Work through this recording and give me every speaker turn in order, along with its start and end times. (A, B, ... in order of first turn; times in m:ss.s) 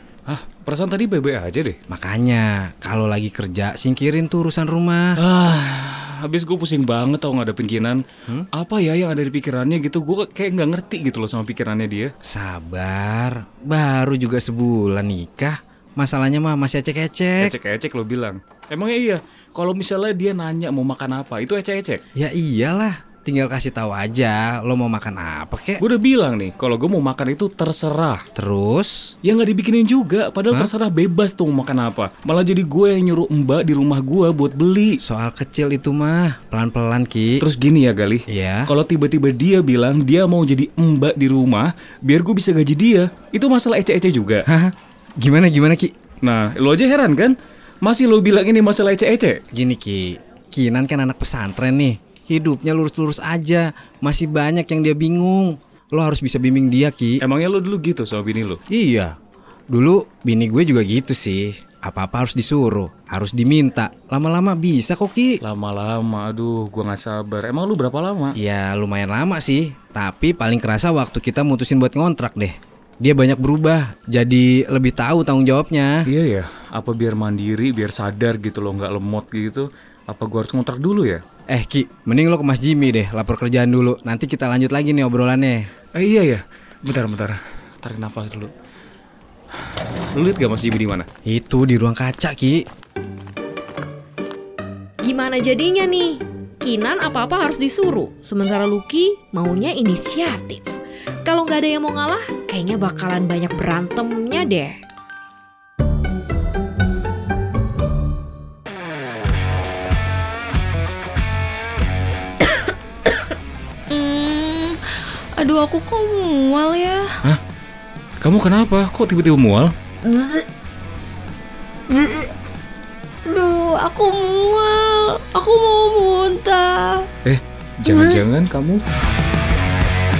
0:00.3-0:01.8 A
0:01.9-0:05.2 B
0:05.2-0:08.0 A
0:08.5-0:12.1 A
0:12.2-0:17.5 B
0:17.4-0:22.0 A
0:22.1-0:25.8 B
0:25.8-0:28.2 A
0:28.4-0:29.1 B
0:29.2-0:35.0 A
0:35.0-0:37.4 B
0:37.4-0:44.4 A
0:38.3-0:38.7 B
0:44.5-0:45.9 B
0:46.2-0:49.4 A
0:49.5-0:57.2 B
0:57.2-0:58.6 A
0:58.7-0:59.1 B
0:59.7-1:05.4 B
1:05.4-1:08.4 A
1:08.3-1:16.0 B
1:16.0-1:21.2 A
1:21.5-1:25.7 B
1:25.9-1:28.5 A
1:30.1-1:31.1 A
1:31.2-1:32.6 B
1:35.0-1:44.7 C
1:53.9-1:57.1 D
1:58.2-1:59.7 A
2:00.0-2:00.4 D
2:01.9-2:02.3 D
2:03.2-2:07.1 D
2:07.2-2:08.8 A
2:07.8-2:08.2 D